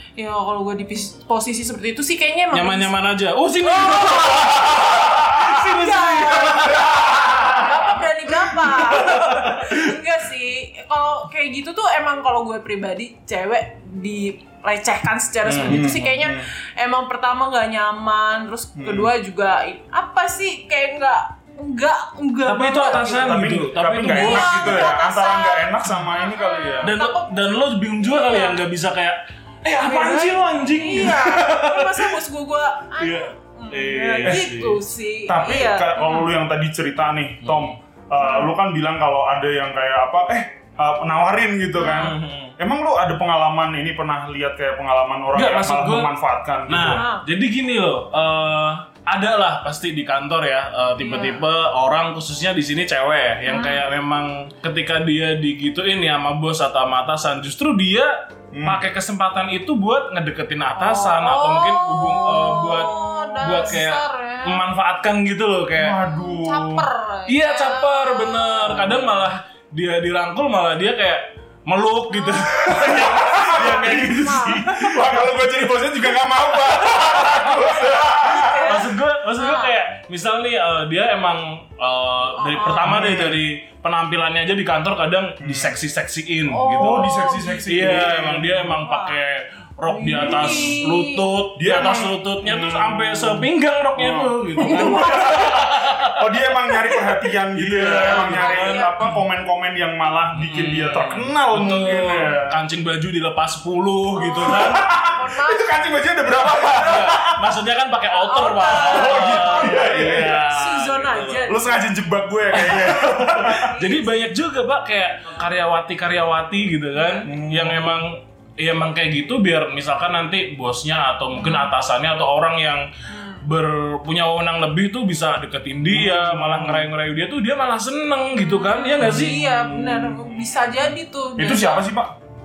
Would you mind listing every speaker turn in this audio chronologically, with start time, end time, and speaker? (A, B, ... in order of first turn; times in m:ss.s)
0:00.2-0:02.9 A
0:02.5-0:07.7 B
0:03.6-0:23.5 A
0:06.4-0:07.7 C
0:08.7-0:09.9 B
0:15.5-0:15.9 B
0:15.5-0:16.5 C
0:18.8-0:19.1 C
0:22.4-0:24.9 B
0:23.1-0:27.0 C
0:24.0-0:28.6 A
0:26.8-0:32.2 B
0:29.8-0:36.3 A
0:33.0-0:34.8 B
0:34.2-0:34.5 C
0:35.3-0:47.1 C
0:37.4-0:37.7 B
0:38.2-0:38.5 A
0:41.8-0:42.2 A
0:41.8-0:42.6 B
0:45.3-0:46.1 B
0:46.7-1:06.0 B
0:46.9-0:47.2 A
0:51.0-0:51.4 A
0:53.4-0:53.9 A
0:58.5-0:58.8 C
1:00.8-1:04.6 A
1:05.8-1:06.9 C
1:06.0-1:08.9 A
1:07.3-1:15.0 B
1:08.7-1:09.3 C
1:12.1-1:15.0 A
1:12.5-1:18.8 C
1:16.9-1:17.5 B
1:17.5-1:19.8 A
1:18.5-1:27.1 B
1:22.4-1:23.0 A
1:22.8-1:23.4 C
1:25.4-1:25.8 C
1:26.5-1:28.1 A
1:26.8-1:28.6 C
1:27.7-1:36.2 B
1:28.8-1:29.2 A
1:29.9-1:32.0 A
1:30.1-1:30.8 C
1:31.6-1:42.6 C
1:34.6-1:35.6 A
1:37.5-1:39.2 B
1:37.8-1:39.0 A
1:40.3-1:44.8 B
1:44.2-1:45.8 A
1:44.4-1:47.4 C
1:46.7-1:51.5 B
1:48.1-1:51.7 A
1:48.7-1:50.5 C
1:51.4-1:53.7 C
1:52.5-2:02.9 B
1:53.5-1:54.3 A
1:56.9-1:57.3 A
1:57.2-1:58.0 C
2:01.3-2:01.7 A
2:03.1-2:03.4 A
2:03.4-2:09.4 B
2:05.9-2:06.9 C
2:08.4-2:11.9 A
2:09.0-2:10.8 C
2:11.4-2:12.1 C